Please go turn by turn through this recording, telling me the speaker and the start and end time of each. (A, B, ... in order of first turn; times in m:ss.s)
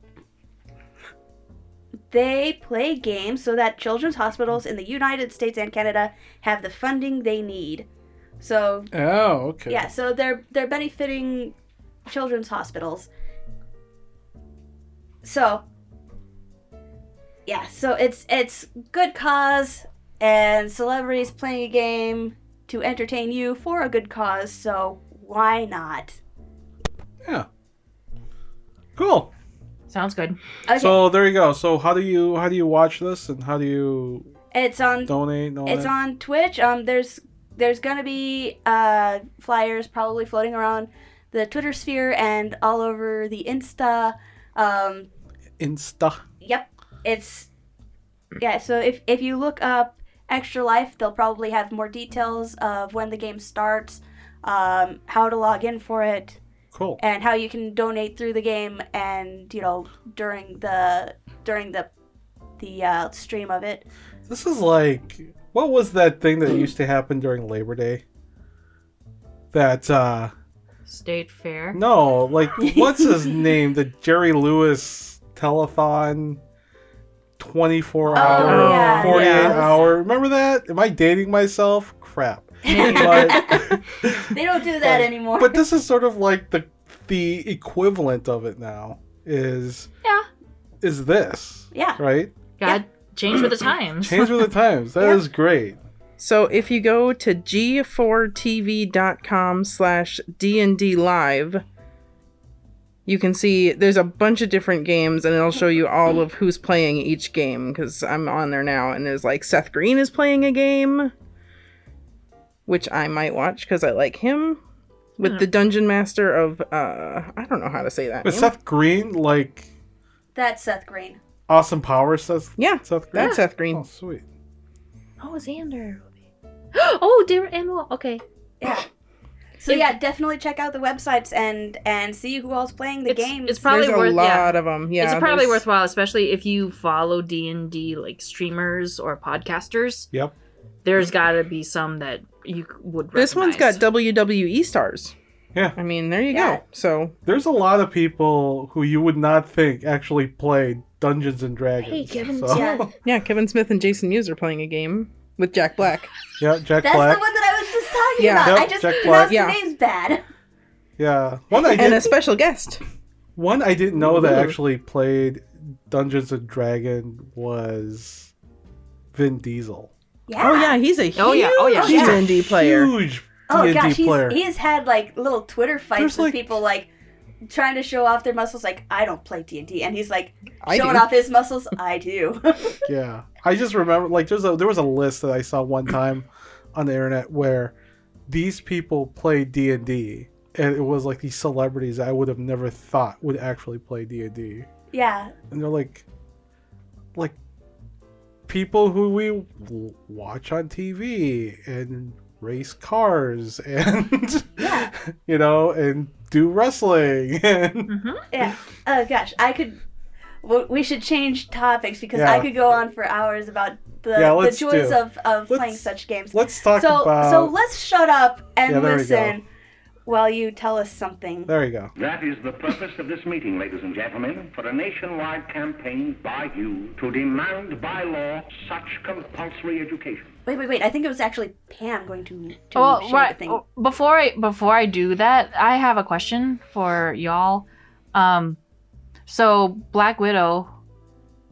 0:02.1-0:07.9 A
0:08.4-0:08.9 A
0:08.9-0:09.9 B
0:09.7-0:11.5 A
0:12.1-0:13.1 A
0:15.2-0:15.6 A
0:17.4-0:26.2 A
0:29.0-0:29.3 B
0:29.9-0:30.4 C
0:30.7-0:31.1 A
0:30.8-0:34.3 B
0:34.5-0:35.1 A
0:35.1-0:35.9 B
0:35.6-0:45.1 A
0:45.6-0:46.2 B
0:46.4-0:47.5 A
0:48.4-0:56.4 A
0:56.7-0:57.0 B
0:57.0-1:01.9 A
1:02.6-1:03.8 A
1:04.3-1:08.0 B
1:09.5-1:10.3 B
1:10.8-1:11.8 C
1:11.7-1:16.4 B
1:12.6-1:13.4 A
1:17.4-1:29.9 B
1:18.0-1:19.6 C
1:18.1-1:19.8 A
1:18.4-1:19.6 D
1:22.7-1:25.6 A
1:22.7-1:23.4 C
1:30.8-1:32.3 B
1:31.7-1:32.0 A
1:32.6-1:34.5 C
1:34.0-1:35.8 B
1:36.2-1:41.6 D
1:43.0-1:51.1 D
1:52.7-1:54.6 D
1:55.2-1:58.5 D
1:58.2-1:59.7 B
2:00.3-2:01.2 A
2:01.5-2:04.2 B
2:02.6-2:03.8 D
2:05.2-2:06.1 C
2:06.7-2:08.2 C
2:08.6-2:08.8 A
2:09.6-2:13.6 A
2:09.7-2:09.9 C
2:13.1-2:20.1 C
2:13.6-2:15.6 D
2:20.8-2:23.8 C
2:23.1-2:25.1 D
2:25.8-2:27.1 D
2:26.3-2:26.6 A
2:27.2-2:32.9 B
2:31.8-2:32.7 C
2:32.5-2:32.8 A
2:33.0-2:36.1 D
2:36.4-2:37.2 B
2:36.8-2:40.2 A
2:38.2-2:39.6 D
2:38.4-2:39.4 B
2:41.0-2:42.1 B
2:41.7-2:42.8 D
2:43.4-2:48.3 B
2:44.1-2:44.5 D
2:49.1-2:49.9 B
2:50.3-2:50.8 A
2:50.4-2:52.9 D
2:51.2-2:52.2 C
2:51.8-2:52.2 A
2:51.9-2:54.4 B
2:53.5-2:56.9 A
2:56.0-2:56.6 B
2:57.5-3:02.8 A
3:00.6-3:01.1 D
3:02.8-3:07.7 B
3:08.3-3:14.7 B
3:14.9-3:15.3 A
3:15.5-3:16.0 B
3:18.5-3:27.9 B
3:24.6-3:24.9 A
3:27.9-3:28.2 C
3:28.3-3:29.8 A
3:30.4-3:39.4 A
3:32.1-3:32.5 B
3:34.1-3:37.5 B
3:38.6-3:39.4 B
3:40.0-3:41.5 A
3:41.5-3:41.9 B
3:42.0-3:50.3 E
3:50.4-3:53.6 A
3:52.7-3:58.6 C
3:59.3-4:00.7 C